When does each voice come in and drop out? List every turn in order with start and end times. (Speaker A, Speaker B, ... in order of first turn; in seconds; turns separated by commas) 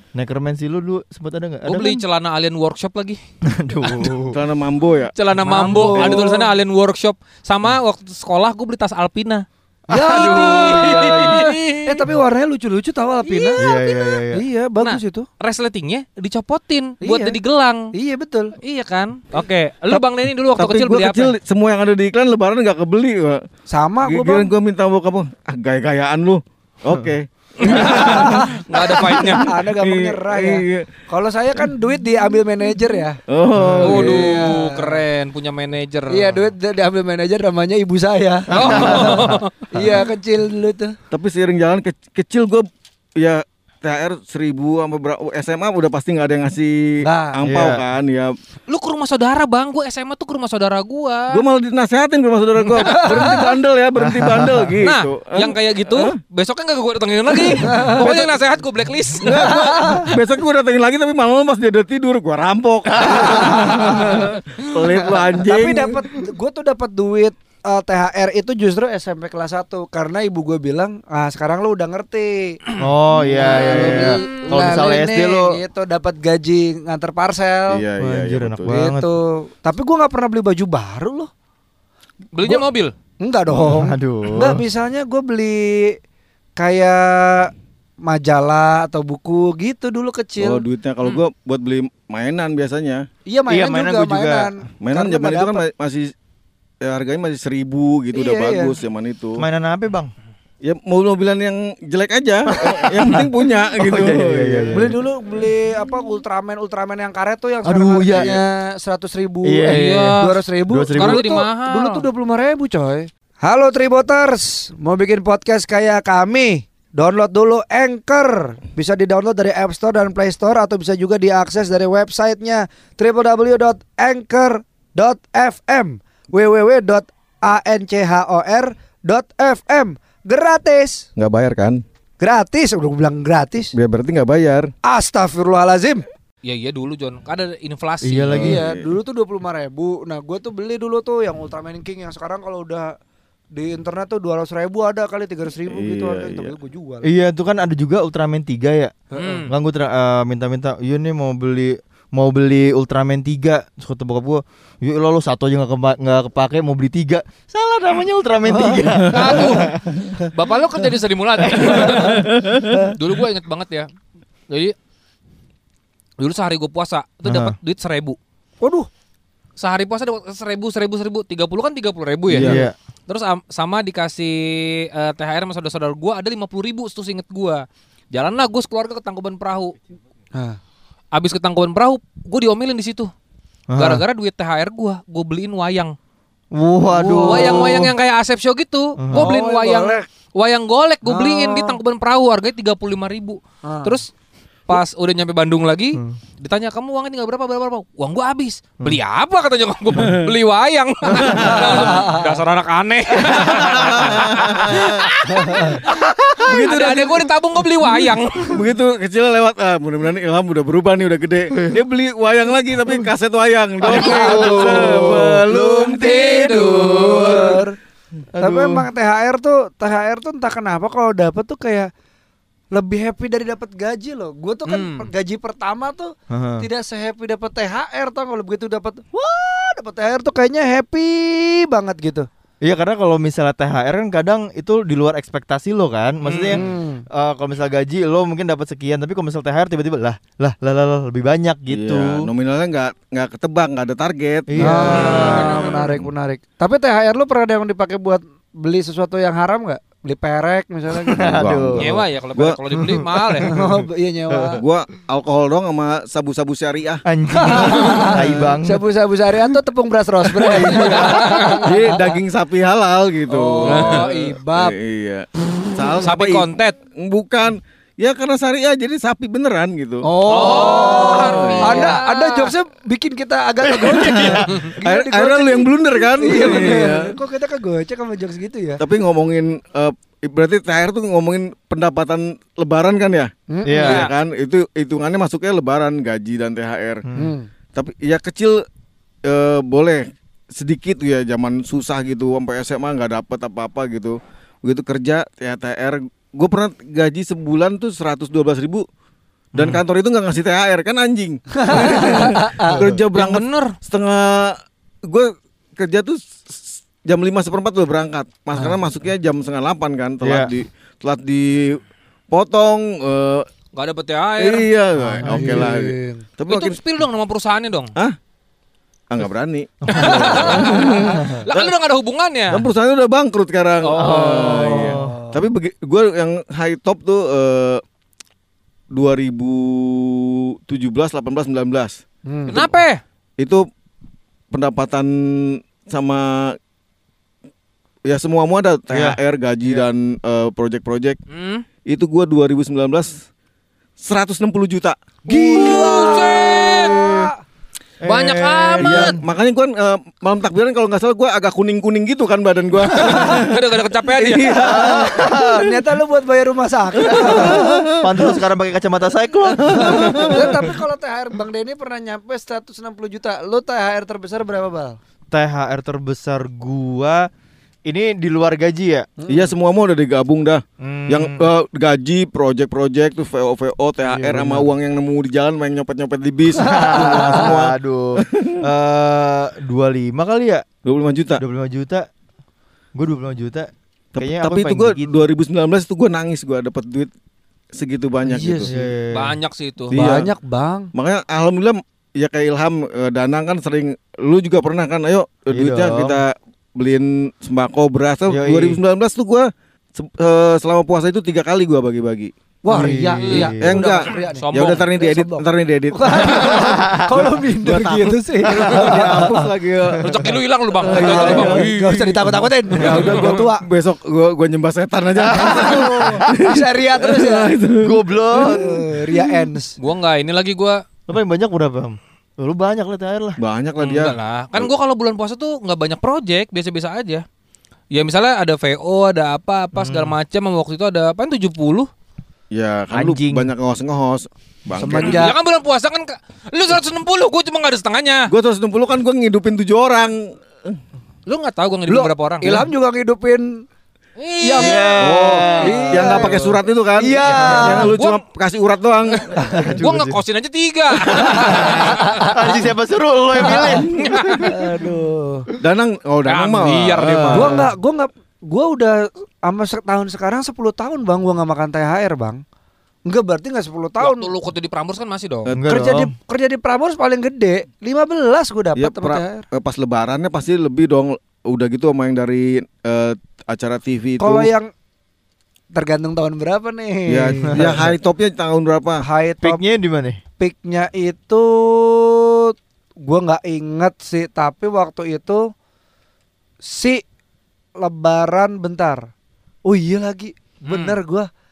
Speaker A: 0.1-2.0, Speaker B: 1.7-3.2, Speaker A: 3.5-4.4, Speaker C: 4.3-5.1, Speaker B: 5.2-9.4, Speaker D: 5.4-6.5, Speaker C: 5.7-6.2, Speaker A: 9.9-11.4, Speaker D: 9.9-13.7, Speaker B: 10.0-12.0, Speaker B: 13.2-14.2, Speaker A: 13.6-14.4, Speaker D: 14.3-15.3, Speaker B: 14.8-17.9, Speaker D: 17.0-17.4, Speaker D: 17.9-18.5, Speaker B: 18.6-21.3, Speaker C: 20.6-23.4, Speaker D: 23.7-24.5, Speaker C: 24.0-30.9, Speaker B: 27.6-29.5, Speaker D: 27.8-28.6, Speaker D: 29.3-33.2, Speaker C: 33.3-34.5, Speaker A: 33.6-34.1, Speaker B: 33.8-36.4, Speaker D: 34.0-35.0, Speaker D: 36.1-39.1, Speaker A: 38.5-39.4, Speaker B: 38.5-39.5, Speaker D: 39.7-41.0, Speaker C: 41.1-42.7, Speaker C: 43.2-46.8, Speaker D: 47.0-47.4, Speaker C: 47.3-48.3, Speaker A: 47.5-47.8, Speaker B: 48.7-51.4, Speaker C: 51.3-56.1, Speaker D: 52.8-53.5, Speaker B: 52.9-53.4, Speaker B: 54.8-59.5, Speaker D: 57.6-58.4, Speaker C: 59.2-66.0, Speaker D: 59.4-60.1, Speaker D: 63.1-64.2, Speaker D: 65.4-72.6, Speaker A: 72.8-75.5, Speaker C: 73.2-74.2, Speaker D: 73.4-77.8, Speaker C: 77.7-78.7, Speaker A: 78.0-79.1, Speaker D: 78.7-81.3, Speaker B: 82.3-82.9, Speaker D: 83.2-86.0, Speaker A: 83.5-84.6, Speaker D: 86.6-87.5, Speaker D: 88.0-90.7, Speaker C: 90.4-93.0, Speaker D: 93.3-95.7, Speaker A: 93.5-94.5, Speaker C: 94.8-96.1, Speaker C: 96.8-99.4, Speaker D: 98.1-98.7, Speaker A: 99.4-100.1, Speaker C: 100.6-104.9, Speaker A: 102.5-105.0, Speaker D: 104.7-131.1, Speaker A: 107.6-108.4, Speaker C: 108.1-108.4, Speaker A: 109.4-111.2, Speaker B: 109.7-110.3, Speaker B: 110.9-112.0, Speaker C: 131.2-131.8, Speaker D: 132.2-133.7, Speaker C: 133.7-134.7, Speaker D: 134.8-136.1, Speaker B: 136.4-138.5, Speaker A: 138.0-138.6, Speaker C: 138.3-138.9, Speaker D: 138.4-142.9, Speaker D: 143.5-147.1, Speaker C: 145.7-146.5, Speaker A: 147.0-148.9, Speaker B: 149.1-149.5, Speaker A: 149.5-159.8, Speaker D: 158.5-159.6, Speaker B: 159.1-159.7, Speaker B: 160.2-163.9, Speaker A: 161.4-162.0, Speaker D: 161.8-162.9, Speaker B: 164.5-164.8, Speaker B: 166.2-168.2, Speaker A: 167.2-167.6, Speaker D: 168.6-168.9, Speaker B: 169.6-179.8, Speaker C: 172.3-172.6, Speaker A: 172.4-172.8, Speaker B: 181.1-183.1, Speaker A: 183.7-184.0, Speaker B: 183.8-185.9, Speaker A: 186.5-187.9, Speaker D: 186.9-187.7, Speaker B: 187.2-194.1, Speaker A: 189.0-189.3, Speaker D: 189.1-190.1, Speaker D: 191.1-191.8, Speaker D: 193.6-194.0, Speaker B: 194.7-208.6, Speaker C: 199.9-200.3, Speaker C: 201.2-201.9, Speaker D: 201.5-202.3, Speaker C: 203.3-205.0, Speaker D: 205.5-205.8, Speaker A: 205.6-206.4, Speaker C: 206.4-207.3, Speaker C: 208.5-217.6, Speaker A: 213.8-215.3, Speaker D: 213.9-217.7, Speaker B: 215.7-217.1, Speaker A: 218.3-218.8, Speaker D: 218.4-221.9, Speaker D: 222.7-232.3, Speaker B: 224.7-225.1, Speaker A: 226.3-226.7, Speaker A: 232.6-242.3, Speaker B: 236.2-236.6, Speaker D: 236.5-237.0, Speaker C: 241.7-246.1, Speaker A: 244.5-245.5, Speaker D: 244.6-251.3, Speaker B: 244.9-245.8, Speaker A: 251.0-252.0, Speaker C: 251.2-252.6, Speaker B: 251.8-253.5, Speaker A: 252.9-253.8, Speaker D: 253.4-254.6, Speaker A: 254.3-254.6, Speaker C: 254.6-257.0, Speaker A: 257.1-258.8, Speaker D: 257.4-262.0, Speaker A: 260.4-261.3, Speaker B: 260.9-261.6, Speaker C: 261.6-270.1, Speaker D: 263.3-264.7, Speaker B: 263.6-264.2, Speaker B: 266.0-266.8, Speaker A: 270.0-271.6, Speaker B: 270.3-272.5, Speaker D: 270.4-278.8, Speaker C: 271.3-271.9, Speaker A: 273.6-274.6, Speaker C: 274.8-277.1, Speaker C: 278.8-287.0, Speaker D: 283.5-283.9, Speaker A: 283.6-284.1, Speaker B: 283.8-284.1, Speaker D: 287.1-287.5, Speaker C: 287.8-288.6, Speaker C: 289.2-298.9, Speaker C: 299.5-313.5, Speaker A: 299.6-299.8, Speaker D: 301.6-302.8, Speaker B: 303.1-303.7, Speaker A: 310.2-310.5, Speaker B: 313.7-314.7, Speaker C: 314.4-316.8, Speaker D: 315.2-316.2, Speaker A: 315.2-315.6, Speaker B: 316.5-317.9, Speaker C: 319.1-321.7, Speaker A: 319.9-320.5, Speaker B: 319.9-322.6, Speaker C: 322.5-327.8, Speaker B: 323.8-324.9, Speaker A: 324.0-325.2, Speaker D: 324.5-325.4, Speaker C: 328.9-332.8, Speaker D: 332.3-332.6, Speaker B: 332.5-333.0, Speaker C: 334.5-336.6, Speaker C: 338.1-341.2, Speaker A: 338.9-339.2, Speaker B: 341.3-341.6, Speaker C: 341.9-343.2, Speaker C: 344.0-347.1, Speaker D: 345.3-347.4, Speaker B: 345.6-347.1, Speaker A: 348.0-349.2, Speaker B: 348.1-349.2, Speaker C: 348.8-353.6, Speaker B: 352.9-354.6, Speaker C: 354.1-355.6, Speaker A: 354.6-355.7, Speaker D: 354.7-357.9, Speaker C: 357.0-358.0, Speaker A: 357.1-360.6, Speaker C: 359.7-360.6, Speaker D: 359.9-365.0, Speaker A: 365.3-367.3, Speaker A: 367.9-369.1, Speaker D: 369.2-369.5, Speaker C: 369.3-378.5, Speaker A: 370.8-371.5, Speaker A: 374.0-374.7, Speaker A: 376.6-380.7, Speaker D: 376.6-377.5, Speaker C: 380.9-381.4, Speaker A: 381.4-382.1, Speaker A: 382.9-385.2, Speaker C: 384.2-387.1, Speaker C: 387.7-388.7, Speaker D: 388.2-388.8, Speaker A: 388.7-389.4, Speaker B: 389.1-390.0, Speaker C: 389.9-390.3, Speaker D: 389.9-390.9, Speaker C: 390.9-402.9, Speaker A: 395.5-396.2, Speaker A: 398.3-398.8, Speaker D: 402.6-409.5, Speaker A: 402.7-403.8, Speaker B: 403.2-404.8, Speaker C: 403.6-410.2, Speaker A: 406.5-407.2, Speaker A: 408.5-409.3, Speaker A: 409.9-410.3, Speaker B: 410.1-412.1, Speaker C: 410.8-411.7, Speaker D: 410.9-413.7, Speaker C: 412.7-419.2, Speaker D: 415.3-417.6, Speaker A: 417.8-418.8, Speaker D: 418.4-419.8, Speaker B: 419.8-420.8, Speaker A: 421.1-423.4, Speaker C: 423.4-424.7, Speaker B: 423.8-427.2, Speaker B: 427.9-431.9, Speaker A: 429.7-430.2, Speaker C: 432.5-435.3, Speaker A: 432.9-433.5, Speaker D: 434.8-435.4, Speaker B: 435.0-438.3, Speaker C: 438.3-440.8, Speaker B: 441.3-442.7, Speaker D: 441.9-443.5, Speaker B: 444.2-445.0, Speaker D: 444.4-444.9, Speaker A: 444.6-446.4, Speaker C: 445.0-449.6, Speaker D: 445.5-446.4, Speaker D: 447.0-447.9, Speaker B: 447.3-448.2, Speaker D: 449.4-449.8, Speaker A: 449.5-450.2, Speaker B: 449.8-452.3, Speaker A: 451.1-454.7, Speaker D: 453.5-453.9, Speaker B: 454.0-454.5, Speaker D: 454.5-455.5, Speaker C: 455.6-457.7, Speaker B: 456.3-457.6, Speaker D: 457.3-462.4, Speaker D: 463.1-464.3, Speaker B: 464.0-465.5, Speaker A: 465.6-466.1, Speaker D: 465.7-469.5, Speaker C: 468.8-474.5, Speaker D: 474.2-474.7, Speaker D: 475.7-477.9, Speaker C: 477.1-479.0, Speaker A: 477.5-478.0, Speaker D: 479.0-479.6, Speaker A: 479.4-480.2, Speaker D: 480.4-482.5, Speaker D: 483.0-485.4, Speaker D: 486.6-487.0, Speaker D: 487.8-489.1, Speaker D: 489.6-491.3, Speaker B: 490.7-491.0